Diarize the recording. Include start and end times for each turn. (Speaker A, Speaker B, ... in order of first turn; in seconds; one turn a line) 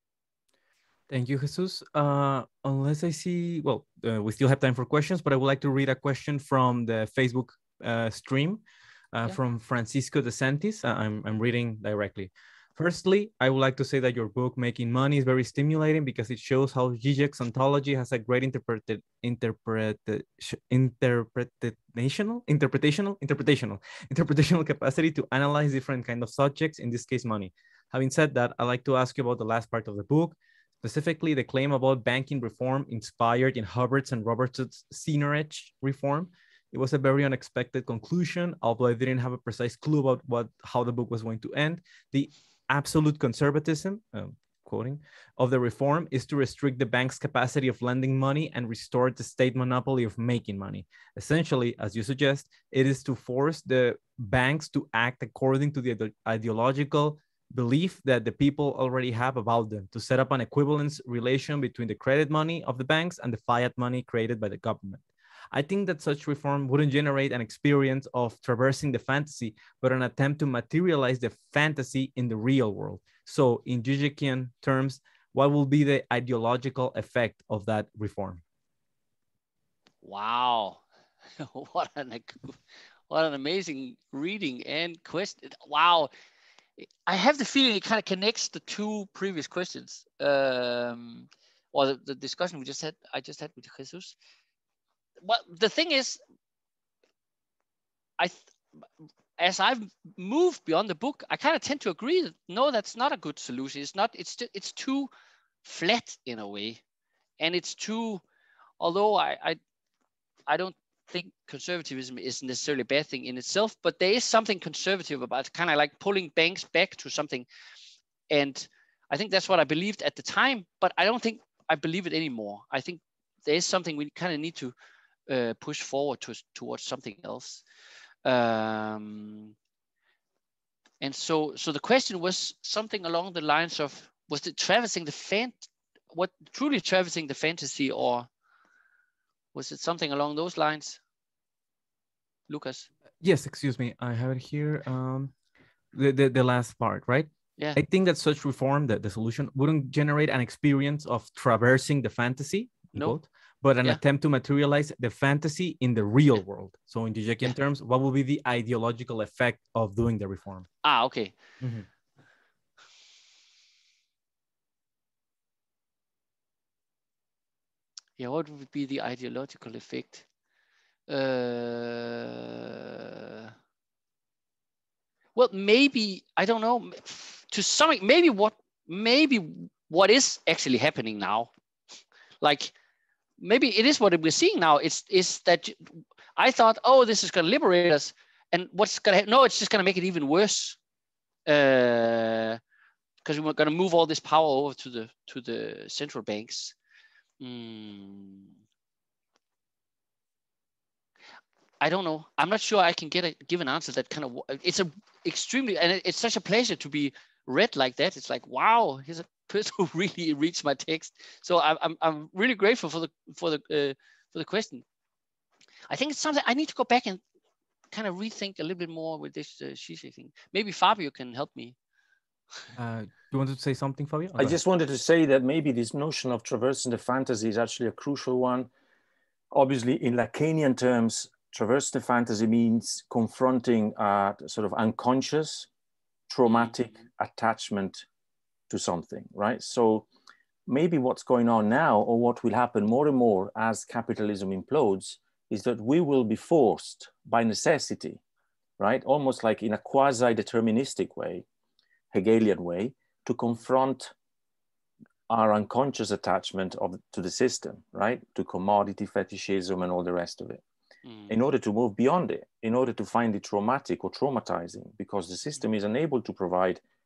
Speaker A: 1.1-78.4
Speaker B: 80.0-80.8
Speaker B: 81.4-82.6
Speaker B: 83.1-86.1
Speaker B: 87.0-94.2
Speaker B: 95.2-96.2
Speaker B: 98.2-98.5
Speaker B: 99.4-105.1
Speaker B: 105.6-106.8
Speaker B: 107.4-108.2
Speaker B: 108.8-109.6
Speaker B: 110.5-117.5
Speaker B: 118.3-124.7
Speaker B: 125.3-127.6
Speaker B: 128.2-129.5
Speaker B: 131.0-138.3
Speaker B: 139.5-141.0
Speaker B: 142.5-142.9
Speaker A: 143.2-145.3
Speaker A: 145.9-160.7
Speaker B: 160.8-161.3
Speaker A: 161.6-161.9
Speaker B: 168.2-170.2
Speaker B: 171.1-173.5
Speaker B: 175.3-181.5
Speaker B: 182.4-182.7
Speaker B: 183.4-190.8
Speaker B: 191.5-192.6
Speaker B: 193.2-196.7
Speaker B: 197.4-198.5
Speaker B: 201.8-214.8
Speaker B: 215.9-217.2
Speaker B: 217.9-221.8
Speaker A: 222.8-224.6
Speaker C: 224.4-228.7
Speaker C: 229.5-235.7
Speaker C: 236.3-238.1
Speaker B: 236.4-236.7
Speaker C: 238.7-240.1
Speaker C: 240.7-248.2
Speaker C: 248.8-251.4
Speaker C: 252.1-254.1
Speaker C: 255.3-260.6
Speaker B: 261.0-261.3
Speaker C: 261.3-266.8